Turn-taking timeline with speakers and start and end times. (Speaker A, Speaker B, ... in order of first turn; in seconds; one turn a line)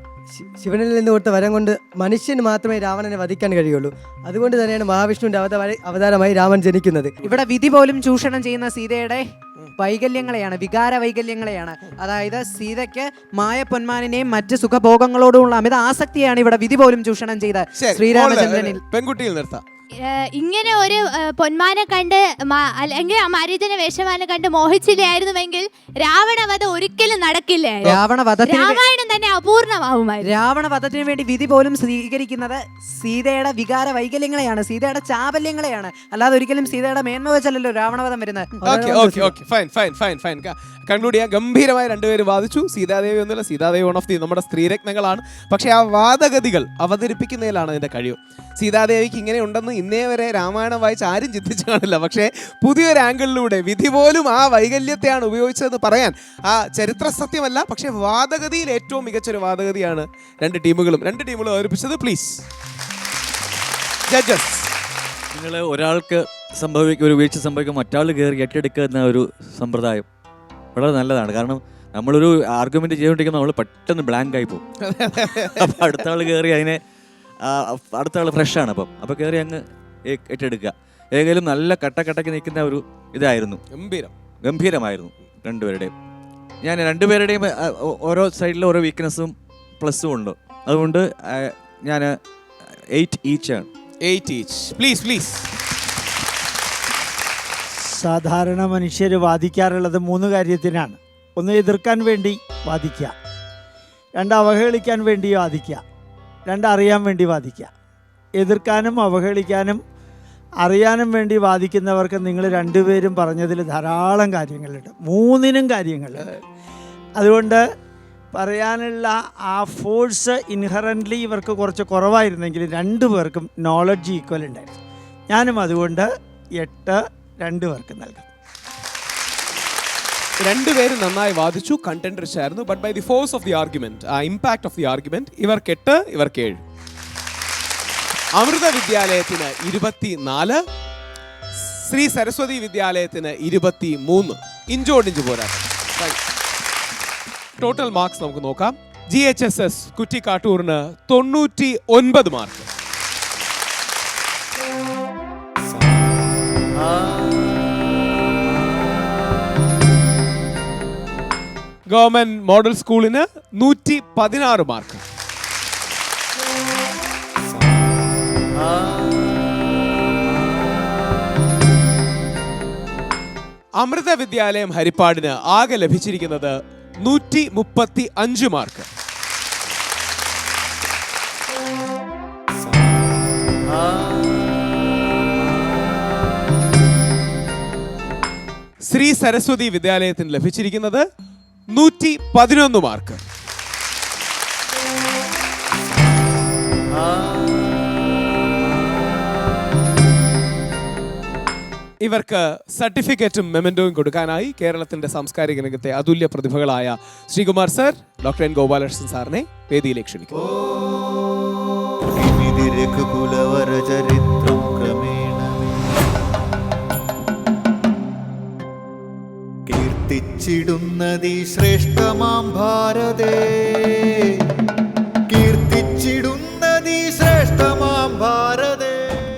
Speaker A: 0.3-7.2
Speaker B: 7.2-18.8
Speaker C: 17.8-19.6
Speaker D: 20.0-30.3
Speaker B: 27.8-28.8
Speaker B: 30.2-38.5
Speaker A: 38.6-39.4
Speaker C: 38.6-62.5
Speaker C: 64.1-64.7
Speaker E: 65.3-70.0
Speaker E: 70.7-74.6
Speaker C: 74.8-76.0
Speaker E: 75.5-76.8
Speaker E: 77.4-83.6
Speaker C: 83.7-84.1
Speaker E: 84.4-85.9
Speaker E: 86.6-92.1
Speaker E: 92.9-93.7
Speaker C: 94.0-95.5
Speaker F: 97.7-103.1
Speaker F: 104.2-105.8
Speaker F: 106.5-107.7
Speaker F: 108.4-109.8
Speaker F: 110.6-116.3
Speaker F: 117.2-117.6
Speaker F: 118.3-124.7
Speaker F: 125.3-128.2
Speaker C: 130.4-136.6
Speaker C: 138.3-140.6
Speaker C: 141.6-146.2
Speaker C: 147.6-152.7
Speaker C: 161.9-165.0
Speaker C: 173.8-178.9
Speaker C: 188.8-191.0
Speaker C: 191.7-193.2
Speaker C: 202.0-210.3
Speaker G: 210.3-210.9
Speaker G: 212.2-215.8
Speaker G: 219.7-224.0
Speaker G: 225.3-229.0